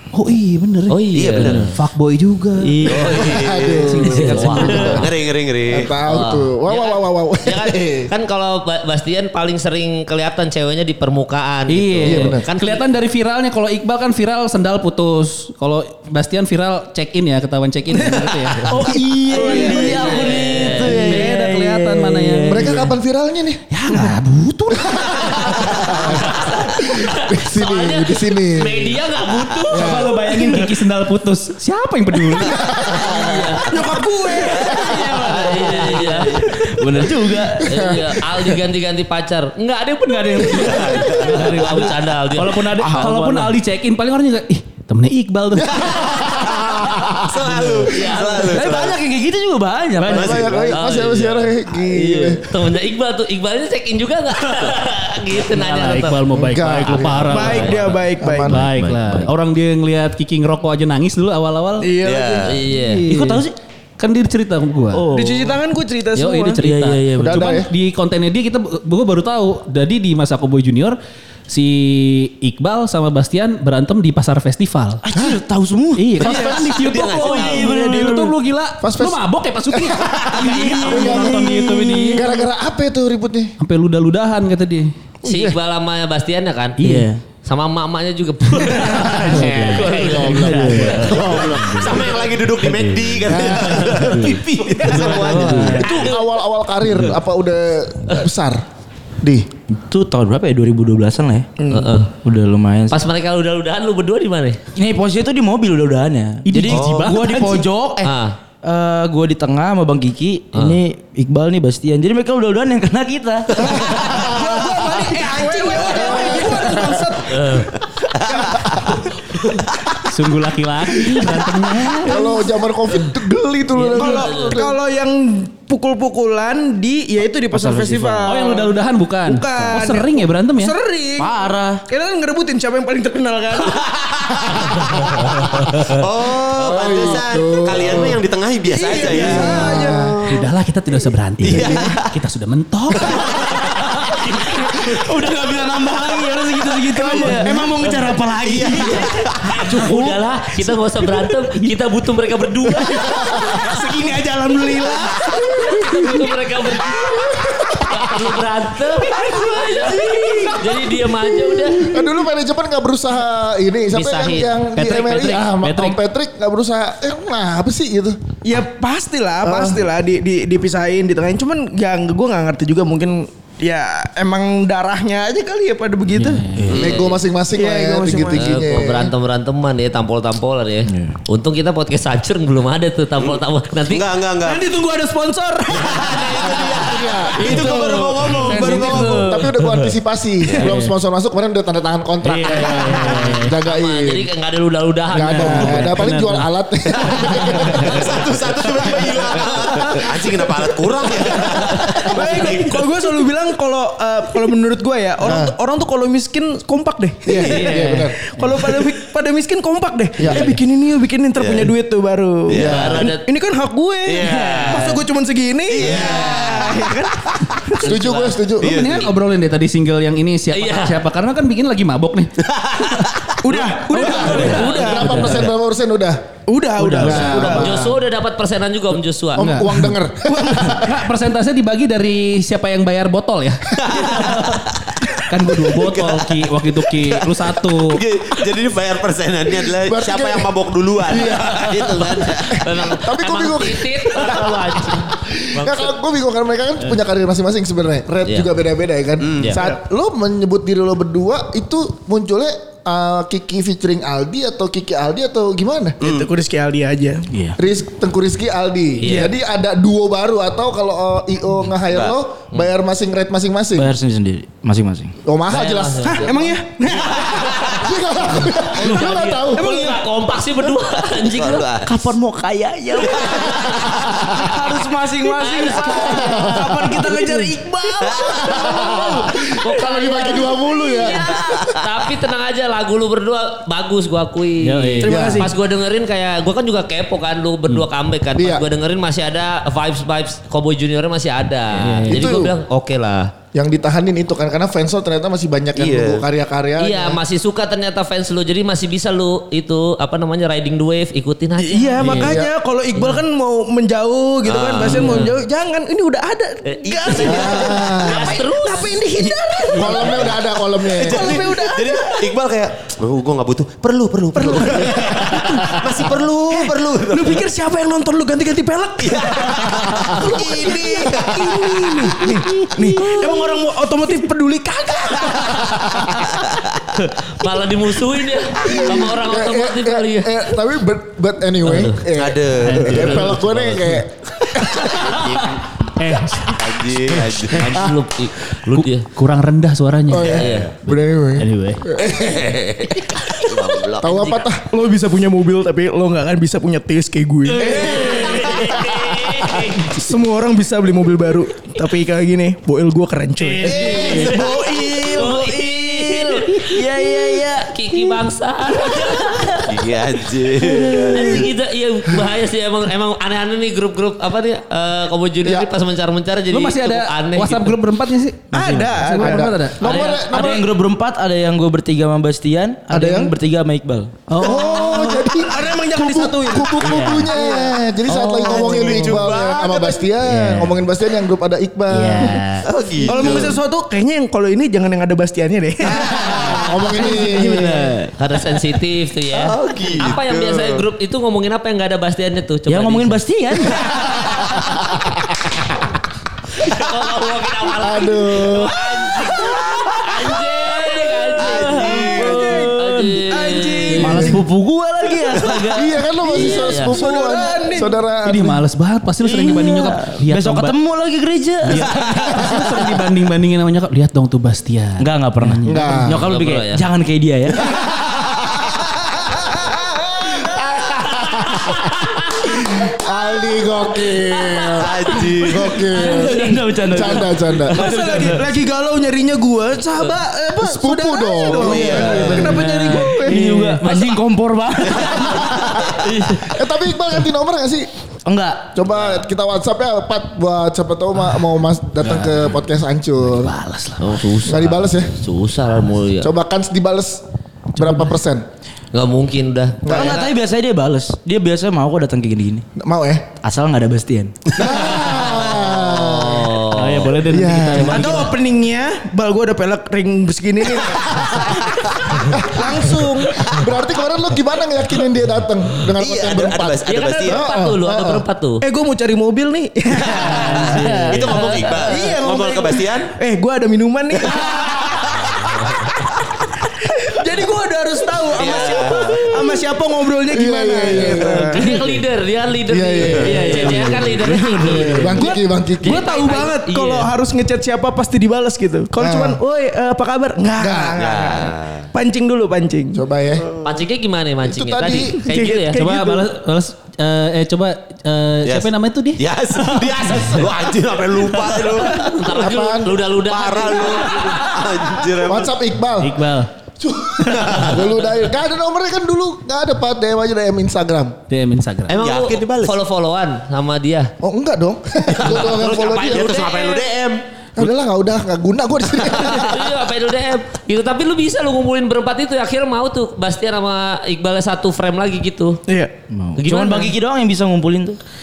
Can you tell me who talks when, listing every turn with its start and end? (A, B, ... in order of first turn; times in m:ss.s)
0:00.1-0:03.1 A
0:00.9-0:01.7 B
0:01.1-0:01.7 C
0:02.6-0:03.4 B
0:02.8-0:05.9 C
0:03.1-0:05.1 D
0:04.0-0:05.0 B
0:04.1-0:04.9 A
0:04.3-0:04.9 E
0:05.7-0:08.1 D
0:06.0-0:12.8 B
0:11.7-0:22.9 A
0:12.0-0:12.4 D
0:18.1-0:18.8 F
0:18.6-0:22.8 E
0:19.3-0:20.2 F
0:19.4-0:21.2 B
0:22.5-0:23.6 D
0:23.7-0:26.2 A
0:24.7-0:29.0 D
0:26.1-0:30.1 B
0:29.6-0:33.6 A
0:29.7-0:30.3 D
0:32.4-0:33.6 D
0:32.9-0:33.7 B
0:33.7-0:35.4 F
0:34.6-0:36.2 A
0:34.8-0:37.8 E
0:35.2-0:36.4 B
0:37.6-0:38.6 D
0:37.6-0:42.6 B
0:40.2-0:46.2 A
0:40.4-0:41.5 C
0:41.5-0:41.8 E
0:42.7-0:43.5 E
0:45.5-0:47.8 D
0:45.8-0:46.5 C
0:47.2-0:49.0 C
0:47.9-0:48.5 B
0:48.5-0:50.7 E
0:50.0-0:50.8 C
0:50.0-0:52.6 D
0:50.7-0:56.2 B
0:55.4-1:01.9 A
0:56.3-0:58.7 D
0:57.3-0:58.6 F
0:57.3-0:58.0 B
0:58.6-0:59.3 E
1:01.8-1:02.5 F
1:02.0-1:02.6 C
1:02.4-1:03.0 B
1:02.7-1:03.4 A
1:03.0-1:03.5 E
1:04.0-1:05.0 A
1:04.9-1:05.6 E
1:05.1-1:06.6 F
1:06.1-1:11.0 A
1:06.6-1:07.6 E
1:07.2-1:07.7 D
1:11.5-1:15.0 A
1:15.0-1:18.4 E
1:15.1-1:15.4 D
1:16.0-1:22.4 A
1:16.2-1:17.7 C
1:16.2-1:16.5 F
1:18.8-1:21.6 D
1:20.3-1:22.3 E
1:22.1-1:23.5 D
1:23.6-1:24.9 A
1:25.2-1:26.8 B
1:25.2-1:25.6 D
1:26.8-1:27.1 A
1:26.8-1:27.2 E
1:27.4-1:30.6 B
1:28.6-1:31.2 A
1:29.1-1:32.0 E
1:29.3-1:31.7 D
1:30.8-1:36.0 C
1:32.7-1:35.9 E
1:33.3-1:33.9 D
1:34.9-1:35.6 A
1:35.7-1:36.2 B
1:35.8-1:38.6 D
1:39.2-1:39.5 D
1:39.7-1:43.0 E
1:41.7-1:42.1 B
1:42.9-1:44.6 B
1:44.8-1:48.1 E
1:46.4-1:47.6 A
1:46.7-1:47.1 C
1:48.0-1:48.4 B
1:48.6-1:53.7 E
1:50.5-1:50.8 B
1:53.6-1:54.8 D
1:53.9-1:57.7 F
1:55.8-1:57.1 D
1:57.3-1:57.7 B
1:58.2-1:59.0 C
1:58.3-1:59.1 F
2:00.0-2:02.4 A
2:02.0-2:04.8 D
2:03.9-2:11.3 F
2:04.0-2:04.6 B
2:07.5-2:08.4 E
2:08.3-2:10.7 A
2:11.2-2:11.8 E
2:11.9-2:13.8 F
2:13.8-2:14.8 C
2:14.6-2:15.3 D
2:15.4-2:20.4 C
2:16.6-2:18.2 D
2:16.7-2:17.2 B
2:18.7-2:20.1 F
2:19.1-2:20.2 D
2:20.2-2:23.7 A
2:21.4-2:21.8 E
2:21.4-2:22.1 C
2:23.0-2:23.6 C
2:24.5-2:29.0 E
2:26.8-2:28.3 F
2:28.4-2:29.8 C
2:28.8-2:33.2 B
2:29.7-2:30.2 F
2:29.7-2:30.1 E
2:32.9-2:33.7 D
2:33.0-2:36.3 F
2:35.5-2:41.9 B
2:37.1-2:38.3 D
2:39.0-2:41.1 F
2:41.7-2:48.2 D
2:41.7-2:42.1 F
2:43.9-2:44.5 B
2:44.8-2:46.0 A
2:48.4-2:56.6 F
2:49.4-2:49.8 D
2:56.2-2:56.6 A
2:56.5-2:56.8 E
2:56.6-2:57.2 C
2:56.7-2:59.1 D
2:56.7-2:57.2 B
2:57.5-2:58.5 F
2:58.4-3:04.0 B
3:00.9-3:01.2 E
3:03.2-3:04.7 C
3:04.4-3:06.7 F
3:05.7-3:09.3 C
3:06.8-3:07.6 D
3:07.4-3:09.3 F
3:08.4-3:09.4 E
3:09.2-3:14.3 D
3:10.4-3:10.7 C
3:10.6-3:10.9 A
3:12.2-3:13.5 A
3:13.6-3:16.0 B
3:15.1-3:18.0 D
3:15.3-3:16.5 A
3:17.0-3:18.0 A
3:17.2-3:23.0 C
3:22.0-3:38.0 F
3:25.2-3:25.5 D
3:27.2-3:28.2 D
3:27.4-3:28.8 A
3:30.2-3:30.6 D
3:31.4-3:31.7 C
3:32.5-3:33.1 C
3:32.5-3:33.1 D
3:32.6-3:33.2 B
3:34.0-3:35.0 C
3:35.7-3:39.2 C
3:37.8-3:38.9 D
3:38.6-3:42.4 A
3:40.5-3:41.0 B
3:42.4-3:44.6 C
3:43.4-3:45.5 F
3:43.9-3:45.5 A
3:44.1-3:46.2 D
3:44.4-3:45.2 B
3:46.5-3:47.8 F
3:46.8-3:47.7 A
3:47.0-3:48.0 D
3:47.5-3:49.5 B
3:49.4-3:51.0 D
3:49.4-3:49.9 A
3:50.3-3:50.8 F
3:50.7-3:54.7 A
3:53.7-3:54.8 C
3:55.2-3:58.0 A
3:55.7-4:02.8 C
3:59.8-4:00.5 D
4:01.0-4:16.0 D
4:02.5-4:05.9 B
4:08.2-4:08.5 B
4:09.2-4:09.6 C
4:16.0-4:17.3 F
4:16.0-4:16.3 C
4:17.3-4:17.6 E
4:17.6-4:23.9 D
4:19.0-4:19.3 B
4:19.0-4:19.3 F
4:21.9-4:22.2 C
4:23.7-4:25.1 E
4:25.2-4:26.4 D
4:25.5-4:26.5 B
4:26.2-4:27.8 F
4:27.3-4:31.6 B
4:27.7-4:30.0 D
4:29.6-4:30.0 F
4:31.1-4:32.1 C
4:31.9-4:33.7 E
4:33.3-4:34.5 D
4:34.4-4:39.3 F
4:34.4-4:36.0 E
4:35.2-4:36.6 B
4:36.0-4:37.0 D
4:36.7-4:38.2 E
4:38.0-4:38.4 C
4:38.2-4:41.2 D
4:38.6-4:38.9 B
4:39.5-4:53.3 B
4:44.6-4:45.3 A
4:45.0-4:45.5 D
4:45.0-4:45.5 F
4:48.4-4:48.6 D
4:51.8-4:52.5 A
4:52.1-4:52.5 D
4:53.5-4:57.2 D
4:55.8-4:56.2 C
4:56.8-5:02.3 B
5:01.6-5:10.3 F
5:02.0-5:02.4 A
5:02.1-5:02.5 D
5:04.4-5:05.1 C
5:04.9-5:05.3 B
5:06.6-5:09.6 B
5:07.2-5:08.4 D
5:09.7-5:11.5 D
5:10.8-5:17.4 C
5:10.9-5:12.3 F
5:14.4-5:26.2 F
5:19.0-5:22.3 C
5:19.9-5:20.2 D
5:25.4-5:26.1 D
5:26.4-5:26.7 C
5:27.2-5:30.4 B
5:28.6-5:35.0 D
5:31.6-5:32.0 B
5:32.1-5:33.6 C
5:32.6-5:34.0 A
5:33.0-5:33.3 B
5:34.9-5:35.6 C
5:34.9-5:36.6 A
5:36.4-5:37.9 C
5:37.5-5:37.8 A
5:37.5-5:39.1 B
5:38.7-5:40.4 A
5:40.1-5:42.6 D
5:40.2-5:40.8 C
5:40.3-5:40.7 B
5:41.3-5:41.9 A
5:42.0-5:44.5 C
5:43.1-5:44.6 D
5:44.7-5:48.3 F
5:47.5-5:49.9 B
5:47.6-5:48.0 D
5:47.8-5:48.3 A
5:49.8-5:55.0 F
5:53.4-5:53.6 A
5:53.6-5:54.5 C
5:53.6-5:59.8 B
5:53.9-5:58.2 E
5:58.8-5:59.6 E
5:59.7-6:01.5 C
6:00.6-6:01.5 E
6:01.1-6:07.8 B
6:06.5-6:10.6 A
6:08.5-6:09.5 F
6:09.1-6:10.6 D
6:09.8-6:10.1 B
6:09.9-6:14.1 E
6:12.9-6:13.3 D
6:14.3-6:14.8 A
6:14.4-6:22.4 D
6:14.4-6:17.8 F
6:16.8-6:17.3 A
6:16.9-6:17.2 E
6:18.1-6:19.0 E
6:18.4-6:19.9 C
6:20.1-6:20.7 E
6:21.9-6:23.3 E
6:22.0-6:22.6 A
6:22.6-6:23.6 C
6:23.1-6:26.4 F
6:26.3-6:27.9 D
6:26.4-6:28.1 E
6:28.2-6:33.2 B
6:29.3-6:30.8 C
6:32.7-6:33.9 E
6:33.8-6:34.2 B
6:34.1-6:35.6 D
6:36.5-6:42.2 B
6:37.8-6:38.8 D
6:41.4-6:42.7 C
6:41.5-6:46.6 E
6:41.8-6:44.4 F
6:42.8-6:44.3 B
6:44.0-6:44.4 D
6:45.7-6:48.6 D
6:46.2-6:48.0 F
6:46.4-6:47.0 B
6:48.2-6:50.7 A
6:49.2-6:52.2 E
6:51.6-6:56.1 A
6:52.3-6:52.8 D
6:55.0-6:57.7 E
6:55.6-6:56.2 D
6:56.2-6:56.8 B
6:57.6-6:58.7 D
6:59.5-7:07.9 D
7:04.7-7:05.8 C
7:05.9-7:08.5 E
7:07.7-7:14.1 F
7:10.6-7:12.7 D
7:11.5-7:12.4 C
7:12.4-7:13.9 A
7:12.5-7:16.6 E
7:15.3-7:15.8 D
7:16.4-7:17.9 D
7:18.2-7:18.7 E
7:18.7-7:23.6 D
7:22.0-7:22.6 A
7:23.2-7:24.2 A
7:24.0-7:26.3 B
7:24.4-7:25.1 D
7:26.2-7:27.2 D
7:27.8-7:28.1 A
7:27.8-7:28.4 D
7:28.9-7:30.3 B
7:29.8-7:30.2 D
7:29.9-7:32.6 E
7:32.8-7:33.3 D
7:33.4-7:34.6 E
7:34.6-7:36.6 D
7:35.1-7:37.1 B
7:36.7-7:38.3 A
7:37.2-7:38.2 D
7:37.7-7:43.5 F
7:42.2-7:48.2 D
7:46.0-7:47.4 C
7:46.9-7:48.6 B
7:48.6-7:55.8 F
7:50.2-7:51.9 B
7:50.3-7:51.0 A
7:50.8-7:53.1 C
7:56.8-8:01.8 F
7:58.3-7:59.3 C
8:00.2-8:01.8 D
8:01.2-8:07.1 B
8:02.7-8:06.0 D
8:03.0-8:03.5 C
8:03.2-8:13.0 F
8:04.2-8:04.9 E
8:09.0-8:09.4 D
8:10.6-8:11.0 D
8:11.0-8:11.9 C
8:12.9-8:13.5 D
8:13.6-8:15.8 B
8:14.4-8:15.2 D
8:15.2-8:16.3 F
8:15.7-8:20.5 A
8:18.4-8:22.0 C
8:21.9-8:24.4 B
8:22.2-8:23.0 D
8:23.1-8:25.5 C
8:25.2-8:26.2 D
8:26.0-8:26.5 A
8:26.8-8:31.2 D
8:27.2-8:28.0 C
8:31.3-8:31.9 A
8:31.9-8:32.8 C
8:31.9-8:34.1 B
8:34.2-8:36.4 D
8:35.2-8:37.7 C
8:35.2-8:36.8 B
8:37.6-8:39.7 D
8:39.3-8:45.6 B
8:45.7-8:45.9 F
8:46.1-8:48.0 E
8:46.4-8:46.9 B